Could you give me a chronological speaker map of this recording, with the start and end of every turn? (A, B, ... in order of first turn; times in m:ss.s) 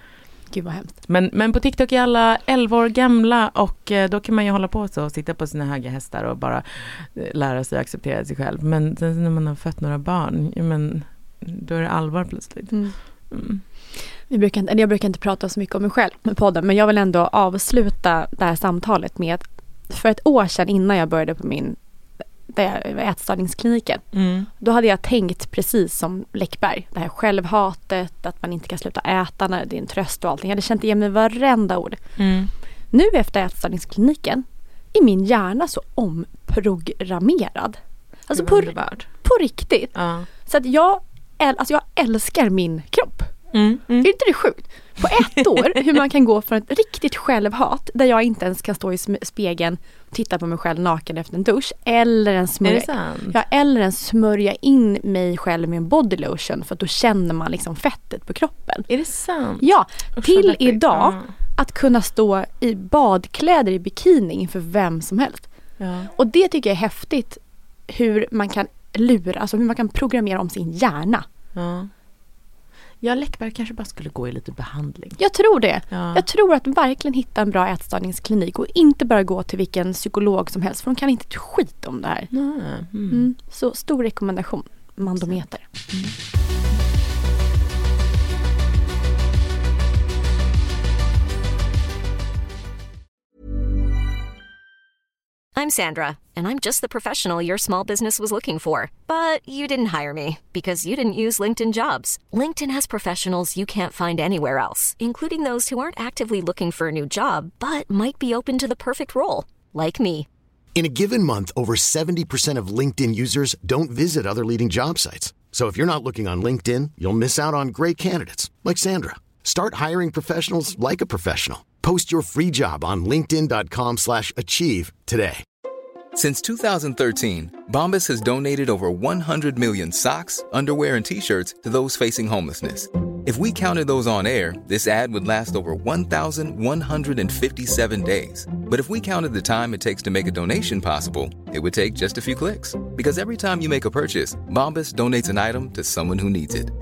0:00.5-0:01.0 A
0:01.1-0:13.6 B
0:12.7-0:13.0 A
0:14.3-0:21.8 A
0:22.5-0:24.0 A
0:24.1-0:24.5 B
0:24.6-0:32.0 A
0:32.2-0:32.5 B
0:32.9-0:39.9 A
0:38.4-0:39.1 B
0:40.0-0:40.3 B
0:40.5-0:43.3 A
0:43.5-0:44.1 B
0:44.0-0:58.9 A
0:45.4-0:45.8 B
0:52.6-0:53.4 B
0:58.9-1:01.3 B
0:59.6-1:05.5 A
1:05.8-1:06.1 B
1:06.2-1:11.3 A
1:11.6-1:11.9 B
1:13.0-1:15.2 B
1:15.2-1:22.3 A
1:15.9-1:16.2 B
1:22.3-1:23.3 B
1:23.1-1:25.6 A
1:35.6-1:50.3 C
1:50.8-2:05.4 D
2:06.2-2:26.7 E